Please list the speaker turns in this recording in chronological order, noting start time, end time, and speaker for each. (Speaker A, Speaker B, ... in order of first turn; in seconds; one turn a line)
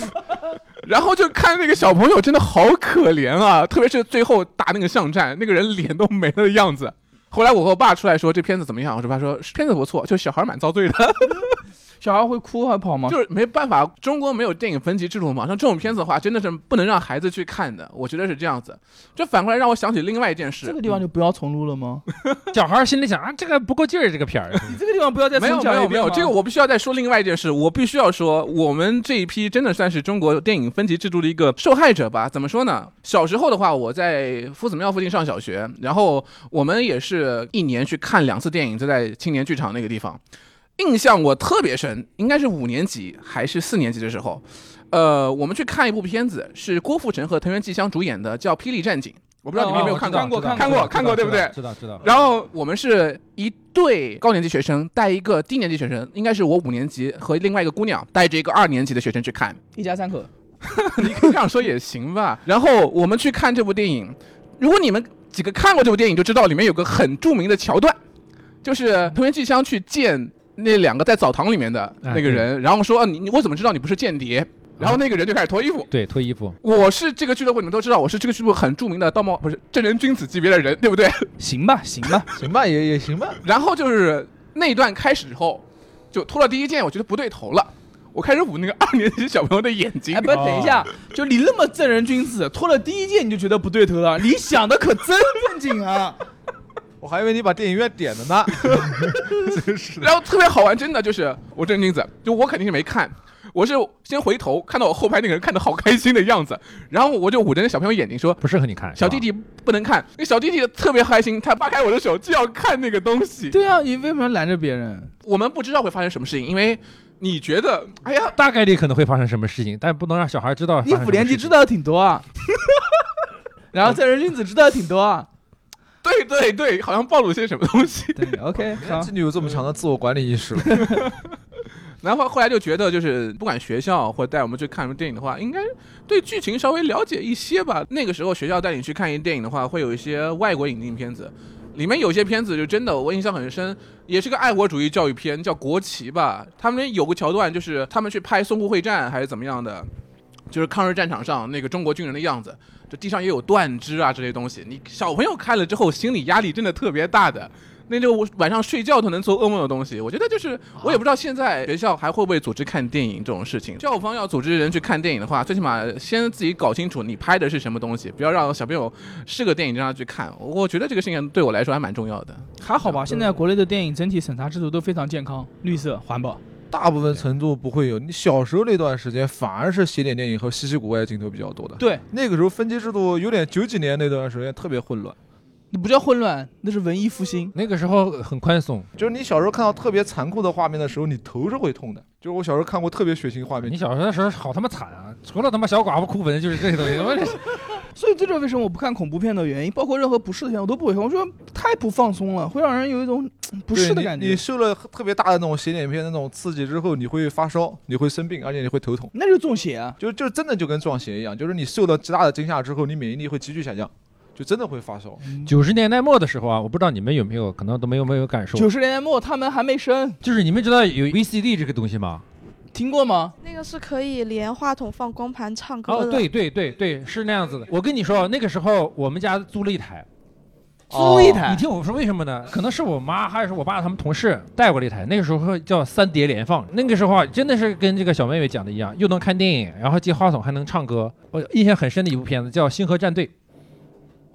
Speaker A: 0.8-11.6
Speaker B: 12.0-13.2
Speaker A: 13.1-21.0
Speaker B: 20.6-22.0
Speaker C: 22.5-24.8
Speaker B: 24.6-26.3
Speaker A: 25.4-40.2
Speaker A: 40.8-59.6
Speaker B: 49.5-51.0
Speaker C: 49.6-52.0
Speaker B: 59.8-60.3
Speaker B: 60.8-61.2
Speaker A: 61.0-68.0
Speaker A: 68.6-75.9
Speaker C: 72.0-72.5
Speaker C: 75.9-76.6
Speaker A: 76.6-81.3
Speaker B: 81.4-82.3
Speaker D: 82.3-83.4
Speaker A: 83.4-90.4
Speaker B: 90.1-96.2
Speaker C: 90.3-90.8
Speaker D: 97.0-100.2
Speaker A: 100.0-108.4
Speaker C: 108.4-109.2
Speaker A: 108.9-113.5
Speaker B: 113.5-115.1
Speaker A: 115.2-118.3
Speaker C: 118.3-121.6
Speaker B: 120.8-122.8
Speaker B: 123.7-125.3
Speaker A: 126.0-128.4
Speaker B: 128.2-129.1
Speaker D: 128.8-131.0
Speaker B: 130.7-131.1
Speaker A: 132.0-149.9
Speaker A: 150.5-172.5
Speaker B: 172.6-176.4
Speaker D: 176.7-185.2
Speaker B: 185.7-187.5
Speaker C: 187.5-188.9
Speaker D: 189.0-193.8
Speaker C: 193.6-197.6
Speaker B: 197.9-204.4
Speaker D: 203.7-209.1
Speaker B: 209.1-210.0
Speaker D: 210.0-215.2
Speaker B: 215.2-215.5
Speaker C: 215.4-218.7
Speaker B: 218.5-220.2
Speaker C: 220.2-222.2
Speaker B: 222.7-223.3
Speaker E: 223.4-226.3
Speaker C: 225.9-230.1
Speaker D: 230.9-231.4
Speaker B: 230.9-231.6
Speaker C: 231.4-243.3